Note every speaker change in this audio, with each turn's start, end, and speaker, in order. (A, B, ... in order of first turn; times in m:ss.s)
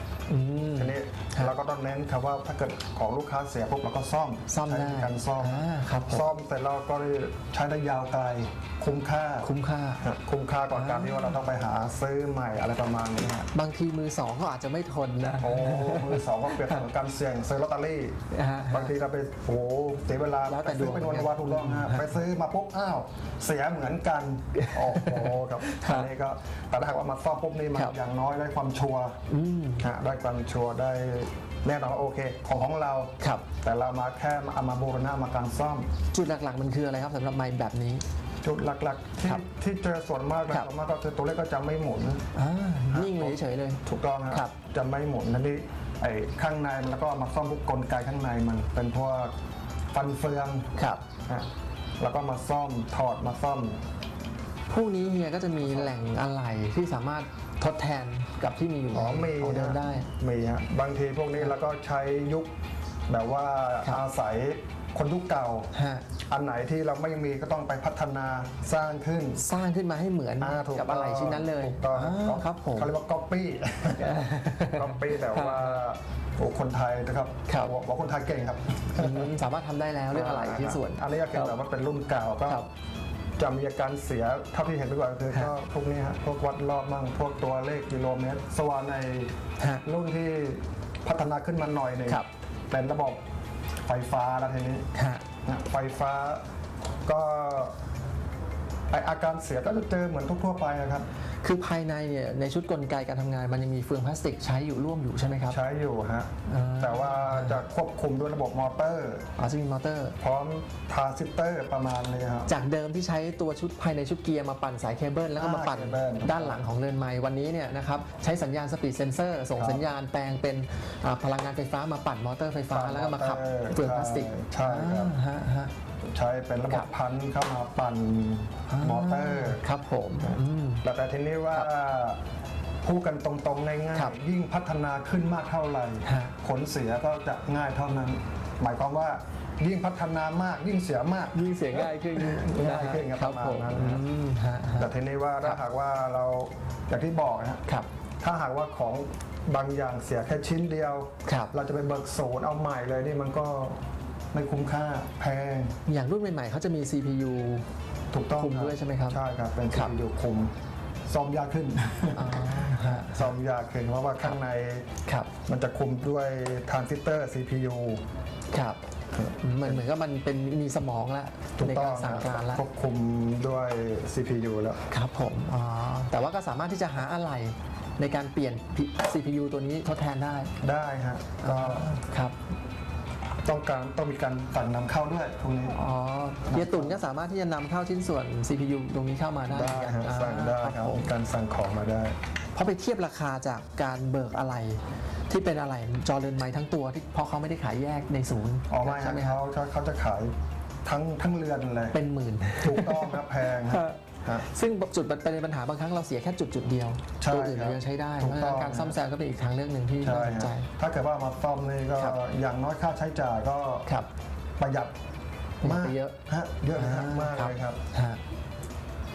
0:00.3-0:01.5 A
0:00.8-0:09.5 B
0:04.5-0:06.3 A
0:09.4-0:10.0 A
0:10.0-0:13.5 B
0:10.7-0:11.4 A
0:13.5-0:16.8 A
0:15.4-0:18.2 B
0:18.3-0:18.9 A
0:18.7-0:29.2 B
0:20.5-0:22.2 A
0:24.6-0:26.1 A
0:29.3-0:29.9 A
0:29.8-0:35.9 B
0:33.2-0:33.5 A
0:36.1-0:38.0 A
0:38.4-0:42.2 B
0:42.4-0:44.5 A
0:42.9-0:49.3 B
0:49.9-0:50.7 B
0:50.8-0:51.0 A
0:52.0-0:53.8 B
0:54.7-1:00.1 A
0:55.6-0:55.9 B
0:58.9-1:02.5 B
1:03.1-1:05.7 B
1:05.7-1:06.1 A
1:06.3-1:09.4 B
1:09.4-1:12.9 A
1:10.4-1:19.3 B
1:14.0-1:15.8 A
1:17.5-1:17.8 A
1:19.0-1:21.6 A
1:20.1-1:22.6 B
1:23.4-1:29.3 B
1:29.6-1:29.8 A
1:29.8-1:33.2 B
1:33.9-1:34.9 B
1:34.9-1:35.2 A
1:35.5-1:36.4 B
1:37.1-1:37.7 B
1:38.9-1:41.1 B
1:41.4-1:45.6 A
1:45.4-1:49.3 B
1:46.5-1:47.6 A
1:49.4-1:50.2 A
1:50.2-1:52.5 B
1:52.5-2:05.7 A
1:55.4-1:56.6 B
1:59.6-1:59.8 B
2:02.7-2:05.1 B
2:06.0-2:09.6 B
2:08.7-2:10.8 A
2:10.2-2:12.2 B
2:12.8-2:24.0 B
2:16.0-2:16.3 A
2:21.3-2:25.6 A
2:24.8-2:27.6 B
2:28.2-2:33.8 B
2:31.2-2:31.5 A
2:34.3-2:35.7 B
2:35.9-2:37.7 A
2:38.1-2:40.5 B
2:38.4-2:39.2 A
2:41.1-2:44.8 B
2:42.2-2:43.3 A
2:45.1-2:45.3 A
2:45.5-2:48.0 B
2:48.5-2:48.8 A
2:49.1-2:49.8 B
2:49.4-2:52.6 A
2:51.6-2:54.8 B
2:54.9-3:00.5 A
3:00.6-3:01.9 B
3:01.4-3:02.4 A
3:03.4-3:05.8 B
3:05.7-3:11.1 A
3:06.5-3:07.0 B
3:09.5-3:12.2 B
3:12.5-3:19.4 A
3:18.7-3:20.3 B
3:20.8-3:22.0 B
3:21.9-3:30.7 A
3:22.6-3:24.4 B
3:27.2-3:29.0 B
3:30.0-3:33.9 B
3:34.6-3:34.9 B
3:35.6-3:36.2 A
3:35.6-3:37.8 B
3:36.7-3:38.2 A